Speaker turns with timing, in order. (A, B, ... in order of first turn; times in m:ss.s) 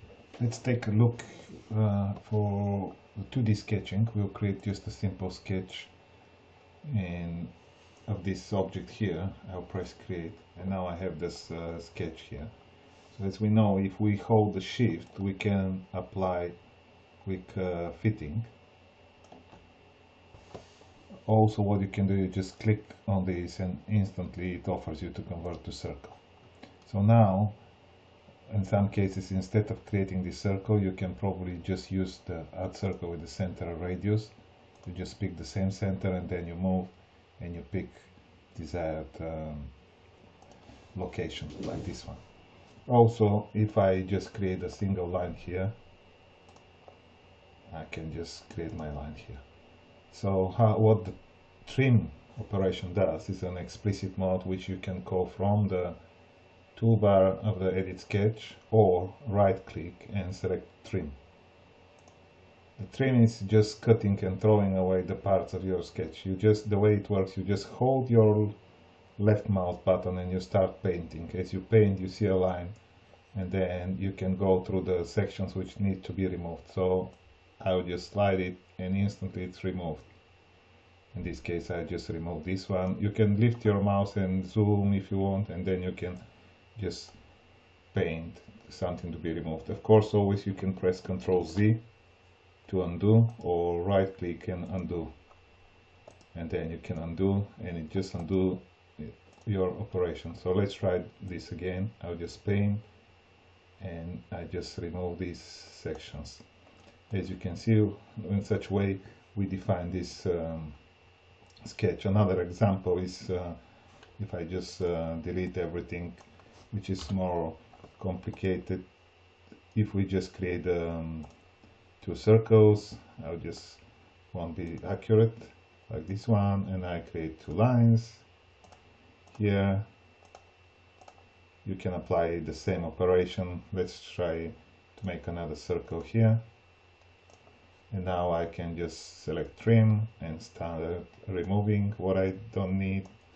0:00.4-0:05.9 A
0:06.8-0:07.5 A
0:08.0-0:12.5 A
0:13.1-0:16.6 A
0:17.2-0:18.5 A
0:21.3-0:26.2 A
0:26.8-0:27.6 A
0:28.5-0:39.7 A
0:40.9-0:42.2 A
0:42.9-0:45.8 A
0:47.7-0:49.4 A
0:50.1-0:56.0 A
0:56.8-1:01.2 A
1:02.8-1:08.5 A
1:09.2-1:12.8 A
1:13.3-1:20.1 A
1:21.1-1:26.2 A
1:26.7-1:27.2 A
1:27.9-1:31.8 A
1:32.7-1:35.1 A
1:36.3-1:42.8 A
1:43.8-1:46.4 A
1:47.1-1:50.8 A
1:51.6-1:53.6 A
1:54.2-1:58.8 A
1:59.7-2:01.3 A
2:02.0-2:08.2 A
2:09.3-2:09.9 A
2:11.6-2:16.4 A
2:17.9-2:23.1 A